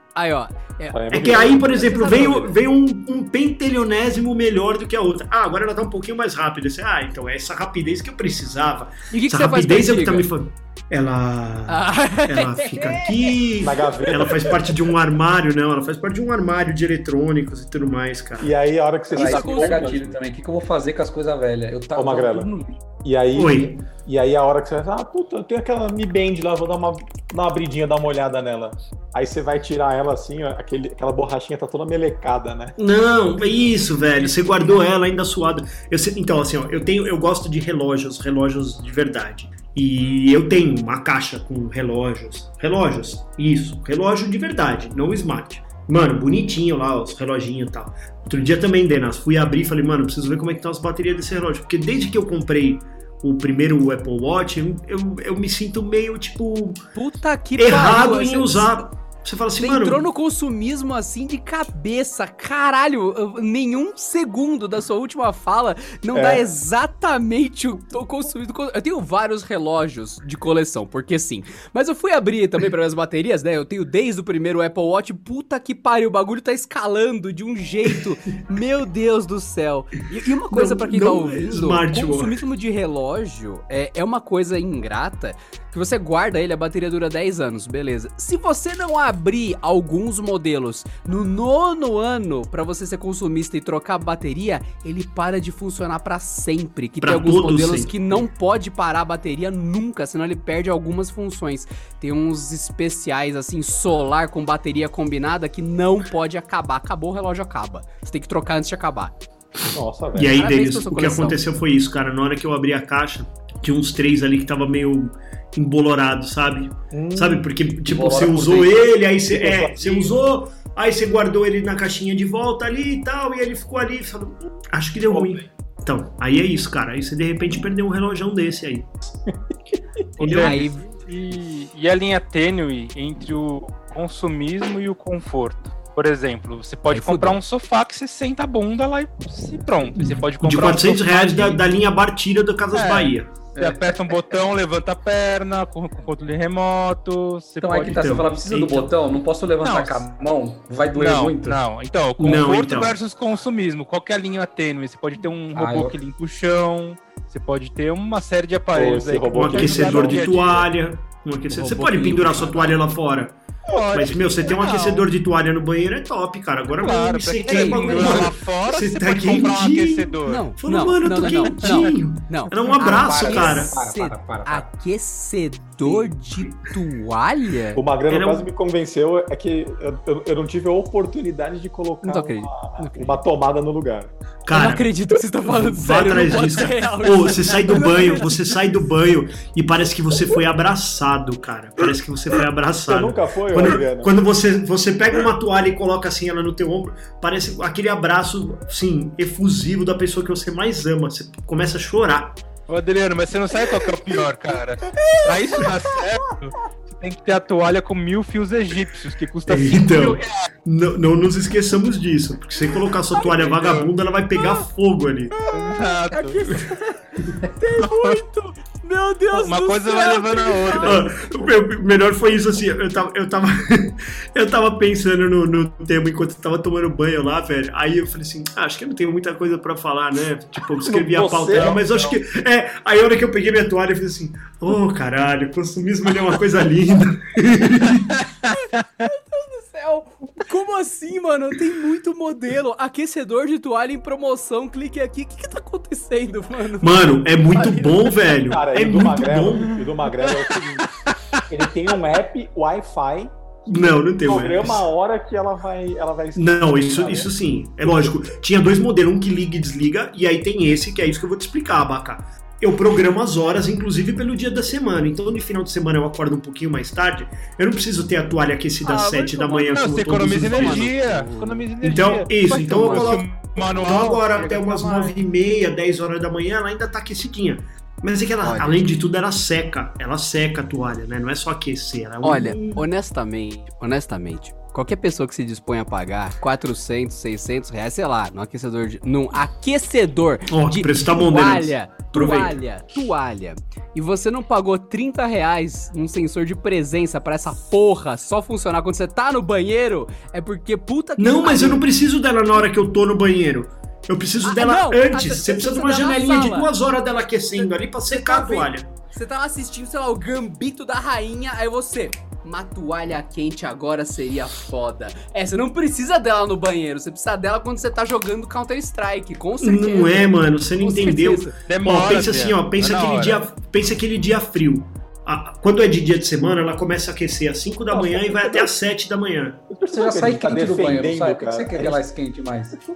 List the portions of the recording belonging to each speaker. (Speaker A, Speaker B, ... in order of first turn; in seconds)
Speaker A: 0.2-2.2, 9.1-10.3, 11.7-13.3, 19.1-20.0, 57.0-58.8, 59.6-109.2, 110.3-111.4, 130.3-130.8, 136.9-137.4, 161.5-162.8, 170.3-177.8, 182.0-183.2, 184.5-188.4, 216.1-216.8, 217.4-221.0, 239.0-248.1, 269.2-271.6, 272.5-273.1, 278.4-278.8, 282.2-301.9, 304.4-306.7, 307.6-321.5
Speaker B: 0.9-2.5, 13.6-14.8, 18.4-20.2, 21.9-22.5, 23.0-32.8, 66.1-66.5, 109.7-110.4, 116.9-117.5, 119.3-120.2, 125.1-125.4, 158.7-160.4, 177.8-184.1, 192.9-194.1, 230.8-232.2, 248.5-250.9, 251.5-257.4, 327.9-328.7, 329.7-332.0
Speaker C: 1.1-18.5, 23.4-23.8, 32.8-56.8, 57.6-60.0, 80.5-82.4, 97.0-98.2, 110.1-128.9, 130.2-130.6, 140.0-143.3, 147.9-148.3, 152.2-152.9, 159.3-163.4, 163.9-173.8, 178.1-178.4, 184.5-184.9, 185.5-202.4, 209.5-215.4, 220.8-238.2, 246.8-249.8, 253.7-254.8, 256.4-270.9, 271.8-282.8, 290.5-292.6, 301.2-308.9, 319.6-329.6
Speaker D: 19.1-22.8, 117.9-118.9, 143.6-143.9, 147.6-151.6, 155.5-156.0, 167.5-168.3, 172.6-174.7, 329.9-332.8
Speaker E: 130.2-141.7, 142.7-148.9, 149.6-150.1, 150.9-160.7, 163.7-165.1, 166.8-170.5, 171.5-171.9, 202.7-210.5, 213.3-213.9, 215.5-216.5, 217.8-218.2, 219.3-221.1, 238.0-239.1, 268.9-275.2, 321.6-323.5